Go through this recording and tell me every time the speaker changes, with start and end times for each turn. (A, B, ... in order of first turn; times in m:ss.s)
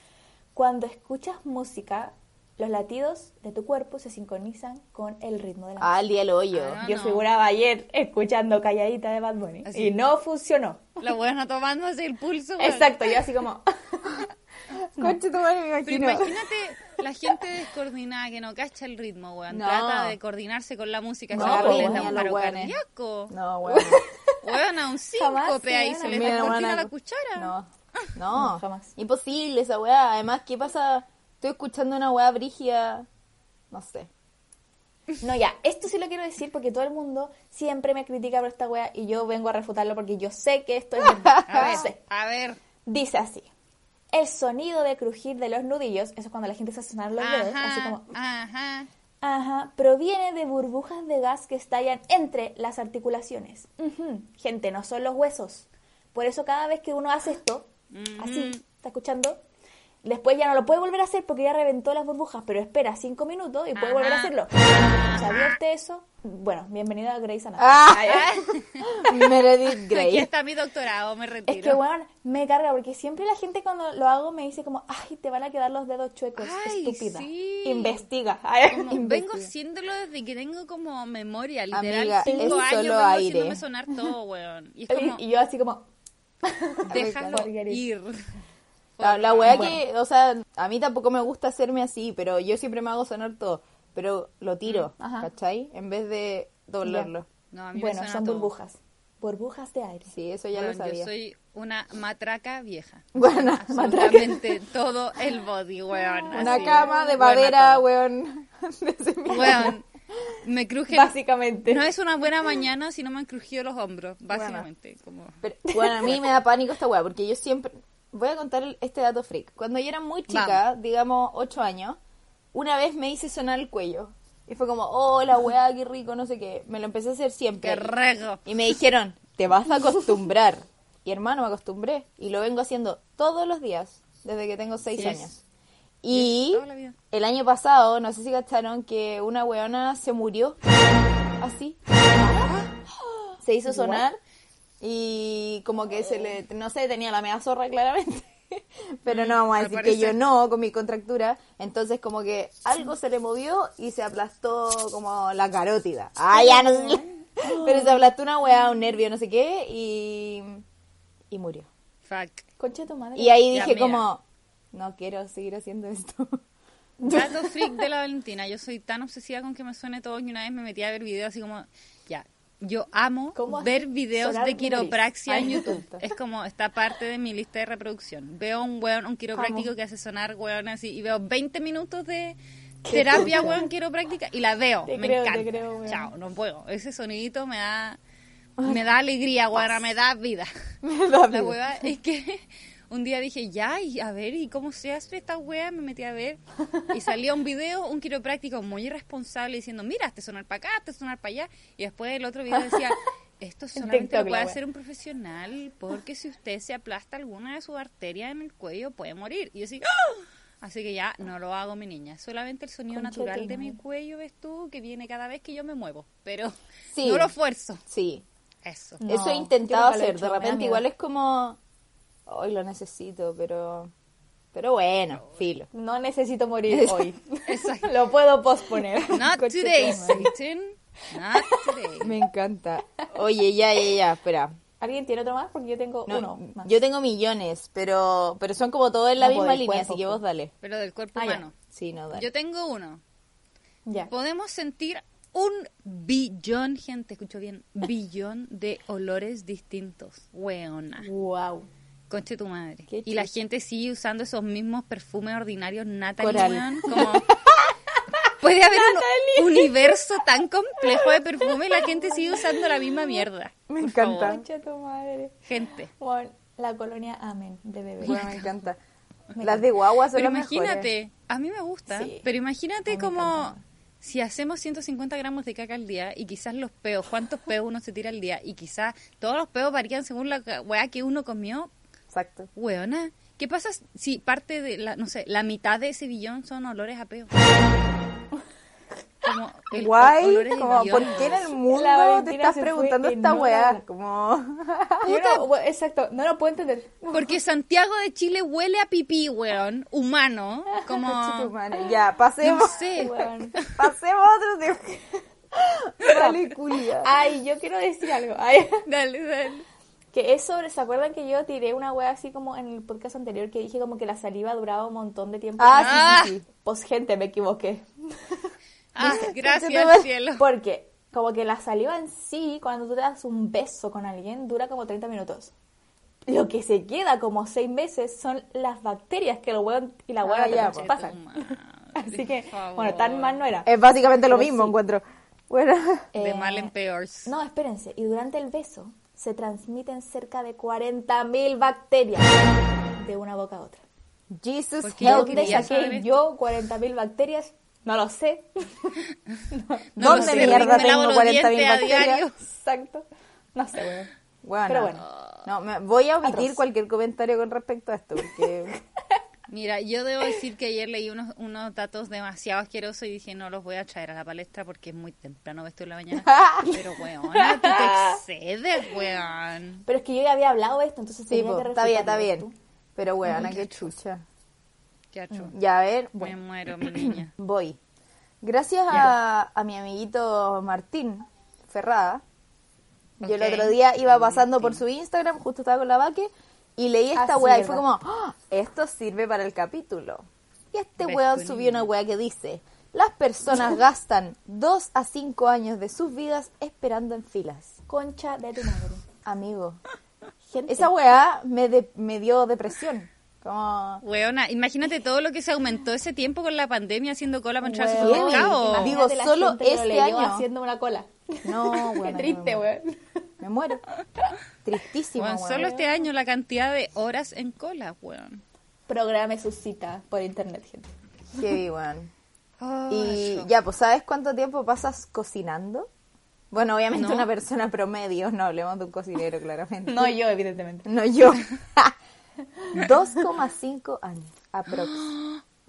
0:00.5-0:06.0 A
0:05.8-0:06.8 B
0:06.5-0:07.2 C
0:06.8-0:11.1 A
0:09.6-0:10.0 C
0:11.0-0:13.2 C
0:12.6-0:14.2 A
0:15.0-0:16.4 B
0:15.8-0:23.4 C
0:19.5-0:20.2 B
0:21.3-0:22.2 A
0:21.3-0:22.8 B
0:23.3-0:24.0 B
0:23.6-0:24.6 A
0:24.4-0:27.5 C
0:25.1-0:26.7 A
0:26.0-0:33.1 B
0:28.3-0:28.9 A
0:33.7-0:34.1 B
0:35.2-0:42.0 A
0:41.2-0:41.8 B
0:41.5-0:42.6 C
0:42.8-0:43.5 A
0:44.1-0:48.1 A
0:47.2-0:48.9 C
0:49.2-0:59.4 A
0:57.9-0:58.6 C
1:00.0-1:08.5 A
1:03.8-1:05.6 C
1:07.6-1:08.3 B
1:08.0-1:08.9 C
1:08.9-1:10.3 B
1:09.8-1:11.8 C
1:11.5-1:19.1 A
1:16.4-1:18.0 C
1:18.7-1:25.2 C
1:18.9-1:19.5 B
1:21.7-1:23.6 B
1:22.2-1:22.6 A
1:24.9-1:25.8 A
1:26.4-1:27.8 A
1:26.9-1:27.4 B
1:26.9-1:28.2 C
1:29.0-1:29.8 C
1:29.0-1:37.2 B
1:29.5-1:29.8 A
1:35.0-1:35.3 A
1:36.8-1:37.1 A
1:37.5-1:38.5 C
1:37.7-1:40.1 A
1:40.1-1:41.1 B
1:40.5-1:47.8 C
1:43.1-1:44.3 B
1:43.8-1:44.4 A
1:46.3-1:47.1 A
1:46.3-1:49.8 B
1:49.3-1:49.8 C
1:50.4-1:55.4 C
1:50.9-1:51.8 A
1:54.3-1:54.6 B
1:55.4-2:02.0 B
1:55.7-1:56.1 A
2:00.3-2:00.6 C
2:02.5-2:07.9 B
2:07.6-2:08.4 C
2:08.4-2:15.4 B
2:15.0-2:15.3 C
2:16.0-2:20.6 B
2:16.1-2:17.0 C
2:21.4-2:21.8 B
2:22.2-2:22.5 A
2:23.4-2:24.2 B
2:23.6-2:24.0 A
2:24.8-2:40.6 B
2:29.1-2:30.2 C
2:36.3-2:37.0 C
2:37.4-2:38.1 A
2:41.3-2:41.7 B
2:42.0-2:42.5 C
2:42.6-2:43.7 A
2:43.2-2:44.2 B
2:43.5-2:44.1 C
2:44.7-2:46.4 B
2:47.0-3:02.4 C
2:53.3-2:55.8 A
2:55.3-2:56.0 B
2:59.3-2:59.7 A
3:02.8-3:03.6 A
3:02.9-3:08.0 C
3:02.9-3:03.6 B
3:04.9-3:06.1 A
3:08.6-3:08.8 B
3:08.6-3:10.5 C
3:10.8-3:11.6 B
3:11.3-3:37.8 C
3:23.8-3:24.6 A
3:32.9-3:33.8 A
3:36.9-3:37.3 B
3:37.9-3:38.2 B
3:38.6-3:39.0 C
3:39.0-3:40.8 A
3:39.1-3:41.6 B
3:42.3-3:43.9 B
3:44.5-3:45.7 B
3:45.7-3:50.3 A
3:46.7-3:47.1 B
3:47.5-3:47.9 C
3:49.1-3:52.1 C
3:49.2-3:50.2 B
3:51.3-3:51.7 A
3:52.0-3:54.5 B
3:54.8-3:56.8 A
3:56.1-4:00.5 B
3:59.2-4:00.2 A
4:00.6-4:01.6 C
4:01.2-4:01.4 A
4:01.7-4:02.3 B
4:02.1-4:03.0 C
4:03.8-4:04.1 A
4:04.1-4:11.1 C
4:11.0-4:11.7 A
4:12.1-4:17.3 C
4:12.9-4:13.3 B
4:16.2-4:17.1 B
4:18.4-4:24.4 C
4:18.7-4:20.0 A
4:20.9-4:22.6 A
4:23.7-4:24.4 B
4:24.2-4:25.4 A
4:25.5-4:25.9 C
4:26.0-4:28.4 A
4:28.0-4:28.8 B
4:28.0-4:28.4 C
4:29.4-4:29.6 A
4:29.4-4:30.9 B
4:30.1-4:41.7 C
4:31.9-4:32.2 A
4:32.9-4:33.6 A
4:42.1-4:42.5 B
4:42.6-4:47.3 C
4:49.2-4:51.5 C
4:49.7-4:55.4 B
4:51.7-4:53.8 A
4:55.0-4:57.3 A
4:57.1-5:01.5 C
5:01.0-5:02.9 B
5:02.4-5:03.8 C
5:03.0-5:03.6 A
5:03.7-5:05.0 B
5:05.5-5:07.1 B
5:06.0-5:06.5 A
5:07.0-5:08.8 A
5:08.8-5:09.6 C
5:10.1-5:18.5 A
5:15.6-5:16.4 B
5:15.8-5:16.3 C
5:18.9-5:20.4 C
5:19.0-5:20.1 B
5:20.4-5:25.5 A
5:26.3-5:33.7 A
5:30.2-5:30.9 B
5:30.5-5:33.4 C
5:33.6-5:36.1 B
5:34.2-5:34.8 A
5:36.1-5:36.7 A
5:36.2-5:37.3 C
5:37.2-5:42.3 A
5:43.0-5:43.8 A
5:44.3-5:45.8 B
5:44.8-5:46.1 C
5:45.0-5:50.9 A
5:50.0-5:52.2 B
5:50.0-5:52.3 C
5:52.4-5:54.1 A
5:54.4-5:58.7 B
5:54.7-5:55.0 A
5:56.2-5:56.6 A
5:59.5-6:09.8 C
6:06.3-6:06.6 B
6:07.3-6:08.2 A
6:09.8-6:12.5 A
6:11.3-6:14.2 B
6:13.2-6:13.9 C
6:15.1-6:15.5 C
6:15.5-6:16.3 B
6:16.2-6:17.3 C
6:16.9-6:17.8 B
6:18.4-6:22.2 B
6:23.2-6:24.8 C
6:23.2-6:37.7 B
6:27.1-6:27.8 A
6:31.0-6:31.9 C
6:37.9-6:39.0 A
6:39.2-6:39.8 B
6:40.4-6:40.9 A
6:40.7-6:44.0 B
6:44.0-6:49.0 C
6:47.6-6:53.0 A
6:48.0-6:50.4 B
6:51.4-6:52.6 B
6:53.4-6:53.8 B
6:54.6-6:55.8 B
6:55.2-6:58.4 C
6:55.5-6:56.1 A
6:58.9-7:00.9 A
7:01.3-7:02.1 B
7:02.6-7:03.5 C
7:02.9-7:05.9 B
7:06.5-7:10.2 B
7:06.9-7:07.3 C
7:09.8-7:10.9 A
7:10.8-7:11.9 B
7:12.7-7:15.0 B
7:14.7-7:15.4 C